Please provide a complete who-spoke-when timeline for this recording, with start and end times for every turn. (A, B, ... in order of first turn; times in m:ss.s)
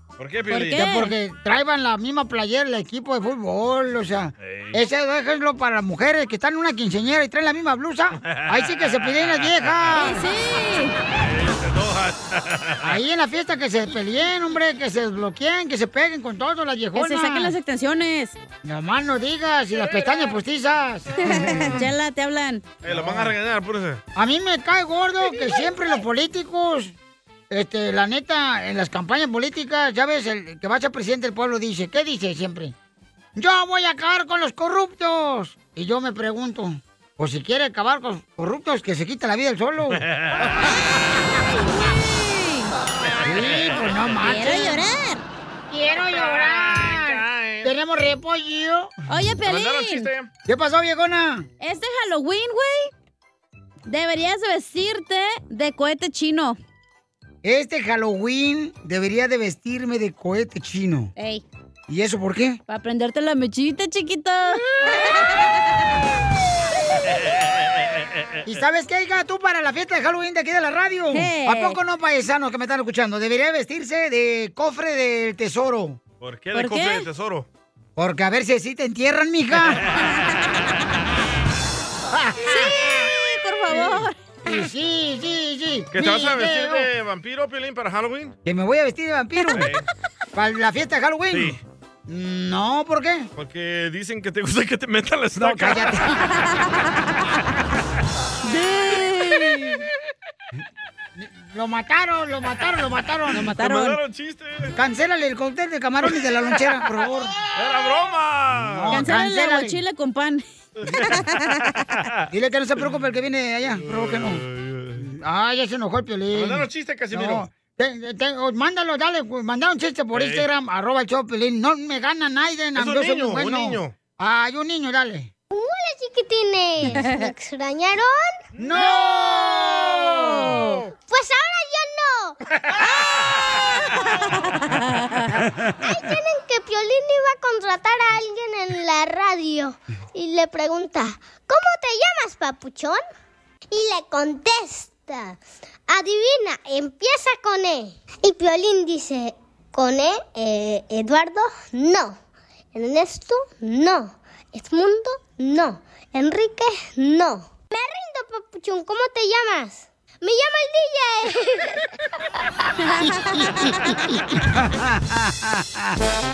0:00.2-0:00.9 A
0:00.5-0:01.1 B
0:00.7-0:10.2 C
0:04.4-0:04.8 A
0:08.2-0:09.8 A
0:09.9-0:10.9 B
0:11.2-0:12.9 A
0:12.8-0:17.6 C
0:16.9-0:18.4 B
0:18.6-0:21.8 C
0:21.2-0:22.6 B
0:22.8-0:24.0 A
0:22.9-0:23.3 C
0:24.2-0:26.9 C
0:27.5-0:32.7 C
0:33.4-0:40.0 C
0:40.0-0:40.6 A
0:41.6-0:42.7 B
0:43.0-0:44.2 A
0:43.2-0:44.8 C
0:44.2-0:45.2 B
0:45.7-0:48.9 C
0:46.1-0:47.7 A
0:49.1-0:50.1 B
0:49.4-0:50.3 A
0:50.4-0:51.5 C
0:51.6-0:52.9 B
0:53.8-0:56.6 B
0:57.4-1:01.1 C
1:01.2-1:01.4 B
1:01.9-1:02.6 C
1:02.7-1:05.5 B
1:07.5-1:08.2 A
1:08.4-1:16.0 C
1:11.1-1:11.8 B
1:16.2-1:17.5 A
1:16.5-1:17.1 B
1:18.0-1:19.8 C
1:19.7-1:20.0 A
1:22.1-1:22.7 C
1:22.4-1:24.2 B
1:23.7-1:26.9 C
1:25.9-1:28.4 A
1:28.4-1:29.7 C
1:29.5-1:29.8 A
1:30.3-1:31.6 C
1:31.3-1:31.6 A
1:32.1-1:33.3 C
1:33.4-1:36.0 A
1:35.4-1:36.2 C
1:38.4-1:39.8 B
1:41.2-1:43.5 C
1:43.3-1:44.7 A
1:43.3-1:44.0 B
1:44.8-1:47.4 C
1:47.5-1:49.1 A
1:48.7-1:49.8 C
1:48.9-1:50.4 B
1:50.8-1:51.2 A
1:50.9-1:51.6 B
1:52.3-1:54.4 C
1:53.7-1:55.0 A
1:55.0-2:05.3 C
1:56.3-1:57.5 A
2:00.1-2:00.5 A
2:02.8-2:03.9 A
2:05.5-2:08.4 D
2:08.6-2:10.5 C
2:08.6-2:10.8 A
2:10.1-2:10.8 B
2:11.0-2:12.4 D
2:12.7-2:13.4 A
2:14.4-2:15.3 B
2:15.8-2:23.0 D
2:23.7-2:32.2 D
2:32.7-2:41.8 D
2:43.0-2:43.7 D
2:44.6-2:45.9 C